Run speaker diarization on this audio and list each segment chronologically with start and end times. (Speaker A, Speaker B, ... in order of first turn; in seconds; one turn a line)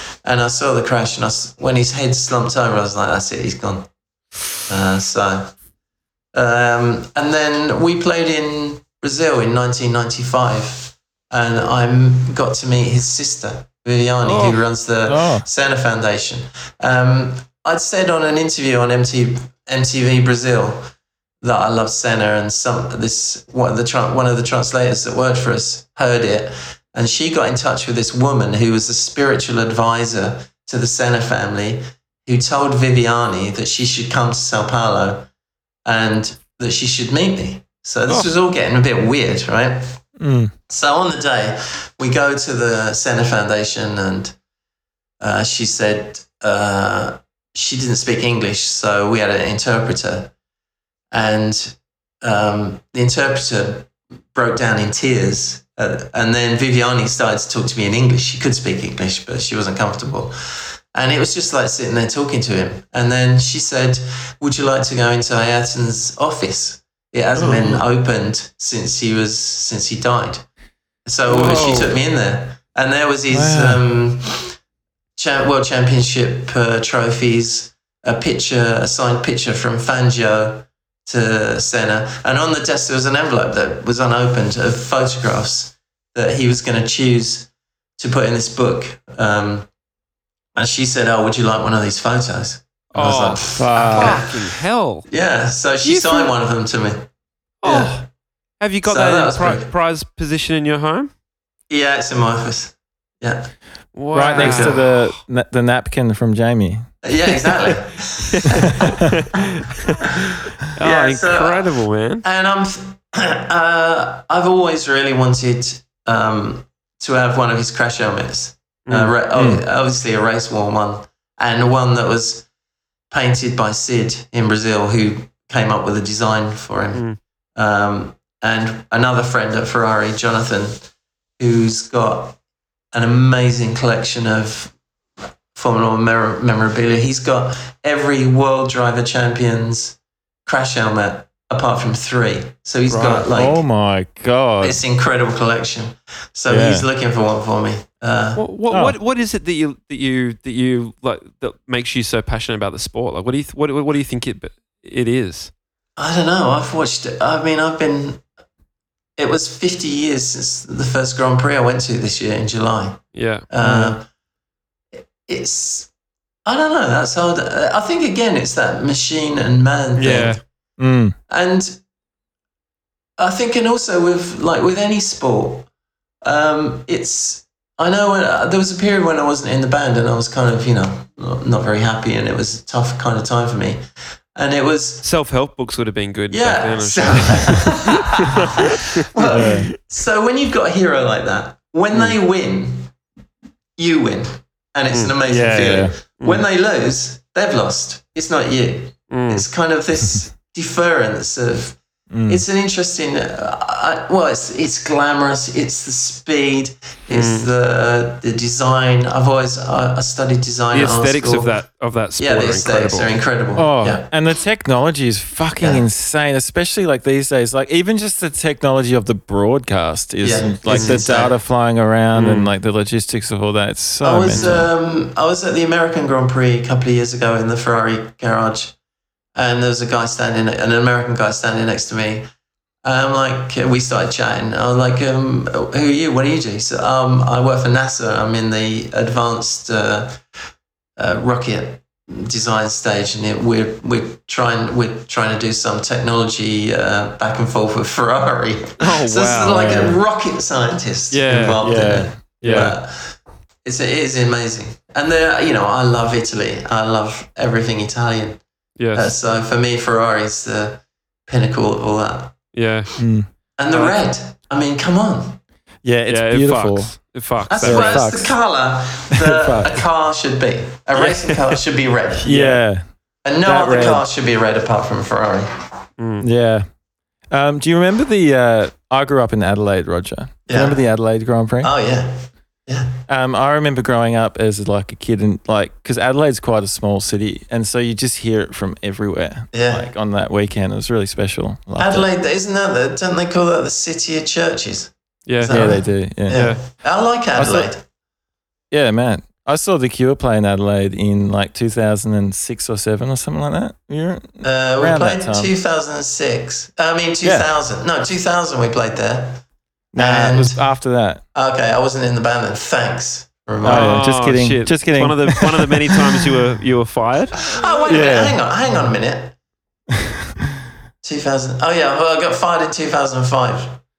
Speaker A: 0.2-3.9
Speaker A: 4.6-5.5
Speaker A: 6.3-20.9
Speaker B: 14.2-14.6
Speaker C: 15.1-15.4
Speaker A: 21.4-35.3
Speaker A: 35.9-39.8
Speaker C: 40.2-40.5
Speaker A: 40.7-44.3
Speaker A: 45.2-50.3
Speaker A: 51.1-60.4
Speaker A: 60.9-70.5
Speaker B: 67.4-67.8
Speaker A: 71.1-74.5
Speaker B: 71.3-72.0
Speaker C: 73.3-73.8
Speaker A: 75.2-89.7
Speaker A: 90.5-94.3
Speaker B: 92.9-95.1
Speaker C: 93.6-94.2
Speaker A: 95.1-97.0
Speaker B: 95.8-96.3
Speaker B: 97.6-98.0
Speaker A: 97.6-98.0
Speaker B: 98.6-101.1
Speaker A: 98.9-99.7
Speaker A: 101.7-103.5
Speaker B: 103.9-105.0
Speaker C: 104.1-106.9
Speaker A: 104.3-104.9
Speaker A: 107.0-109.0
Speaker B: 108.2-112.2
Speaker A: 110.8-122.5
Speaker B: 118.9-119.1
Speaker C: 119.3-119.6
Speaker A: 123.1-130.8
Speaker B: 126.9-127.2
Speaker A: 131.4-132.4
Speaker A: 132.9-134.7
Speaker A: 135.5-143.6
Speaker B: 142.9-143.2
Speaker C: 143.3-144.8
Speaker A: 144.6-148.4
Speaker C: 146.5-146.9
Speaker B: 148.4-155.5
Speaker C: 148.7-149.0
Speaker A: 156.0-158.2
Speaker A: 159.2-164.1
Speaker B: 163.1-163.5
Speaker C: 163.6-163.9
Speaker A: 165.2-165.9
Speaker A: 166.4-170.4
Speaker B: 170.0-170.4
Speaker C: 170.8-171.2
Speaker A: 171.3-171.8
Speaker A: 173.2-175.7
Speaker A: 176.2-183.8
Speaker A: 184.4-185.1
Speaker B: 185.0-189.6
Speaker A: 186.3-188.5
Speaker A: 189.2-192.9
Speaker C: 189.3-189.7
Speaker B: 191.9-192.2
Speaker A: 193.8-211.5
Speaker C: 195.2-196.0
Speaker B: 196.2-196.4
Speaker B: 199.1-199.4
Speaker C: 202.1-202.4
Speaker B: 207.1-207.5
Speaker B: 210.7-213.2
Speaker A: 212.2-214.1
Speaker C: 213.6-224.7
Speaker A: 215.6-215.9
Speaker A: 220.2-221.3
Speaker B: 220.7-221.0
Speaker B: 222.2-222.5
Speaker A: 224.0-228.8
Speaker B: 224.3-224.6
Speaker A: 229.3-232.3
Speaker A: 232.8-240.2
Speaker A: 241.0-258.4
Speaker B: 248.8-250.0
Speaker B: 251.1-251.6
Speaker C: 251.6-252.8
Speaker B: 252.4-252.7
Speaker B: 258.8-259.1
Speaker A: 258.9-262.4
Speaker B: 262.6-263.0
Speaker C: 263.0-263.3
Speaker A: 263.6-265.4
Speaker B: 263.7-264.0
Speaker C: 265.8-267.0
Speaker B: 266.1-268.1
Speaker A: 267.5-272.3
Speaker C: 267.6-268.3
Speaker C: 269.2-269.8
Speaker B: 271.0-271.6
Speaker C: 272.2-272.9
Speaker B: 272.2-272.6
Speaker A: 273.2-275.6
Speaker C: 273.4-274.1
Speaker B: 276.0-276.3
Speaker C: 276.2-276.7
Speaker C: 277.3-281.7
Speaker A: 280.5-280.8
Speaker A: 281.6-282.9
Speaker C: 283.1-292.1
Speaker A: 289.5-289.9
Speaker A: 291.8-297.8
Speaker B: 295.3-295.7
Speaker C: 295.5-296.5
Speaker B: 296.3-296.6
Speaker C: 297.4-297.7
Speaker C: 298.7-305.5
Speaker A: 304.4-309.4
Speaker C: 307.2-307.5
Speaker C: 309.9-311.2
Speaker A: 310.0-310.6
Speaker A: 311.3-314.0
Speaker C: 313.6-315.8
Speaker B: 313.7-317.4
Speaker A: 317.4-319.4
Speaker C: 317.9-318.4
Speaker A: 321.0-323.8